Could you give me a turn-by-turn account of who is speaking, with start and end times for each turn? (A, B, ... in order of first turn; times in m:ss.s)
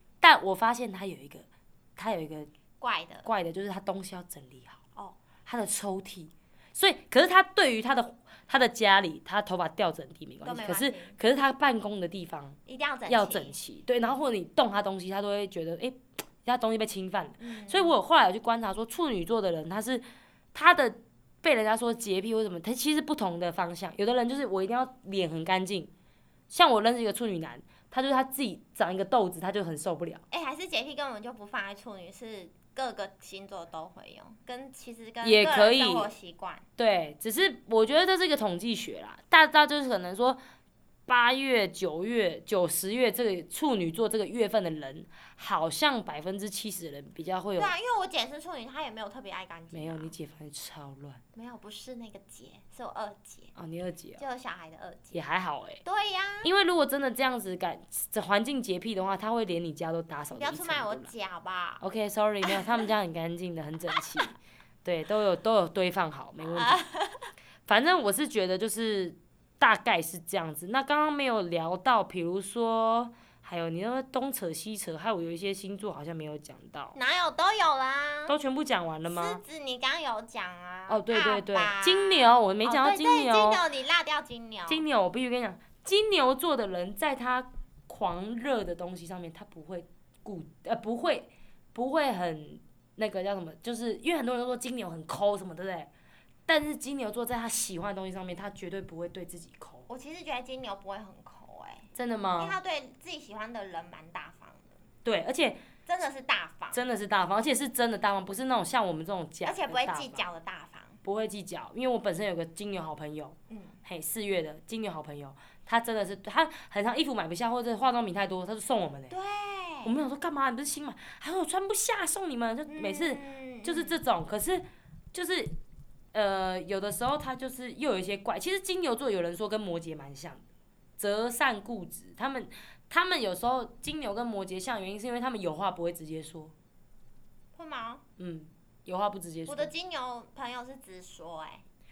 0:00.2-0:02.5 A
0:02.8-0:03.3 B
0:03.2-0:04.8 A
0:05.5-0:25.9 A
0:10.4-0:11.2 B
0:12.7-0:14.2 B
0:17.4-0:18.0 B
0:26.5-0:30.2 A
0:30.3-0:36.6 B
0:35.2-0:36.1 A
0:36.8-0:40.4 A
0:41.1-0:47.7 A
0:47.6-0:50.1 B
0:49.7-0:51.2 A
0:51.4-0:53.5 B
0:53.6-0:54.2 A
0:54.2-0:55.2 B
0:55.1-0:55.8 A
0:55.8-0:56.5 B
0:56.4-1:01.1 A
1:00.4-1:01.8 B
1:01.8-1:06.8 A
1:02.4-1:02.8 B
1:06.4-1:07.3 B
1:07.7-1:17.0 A
1:17.0-1:18.4 B
1:18.3-1:19.4 A
1:19.0-1:24.8 B
1:20.9-1:23.6 A
1:24.7-1:35.9 A
1:36.5-1:39.9 A
1:39.9-1:44.8 B
1:42.0-1:42.6 A
1:45.0-1:45.6 A
1:45.9-1:46.8 B
1:46.7-1:50.3 A
1:49.4-1:51.0 B
1:51.0-1:59.1 A
1:53.5-1:53.8 B
1:59.1-1:59.9 B
1:59.8-2:05.6 A
2:02.7-2:04.0 B
2:06.1-2:10.4 A
2:11.0-2:16.5 A
2:17.6-2:18.0 B
2:18.2-2:19.7 A
2:19.5-2:21.6 B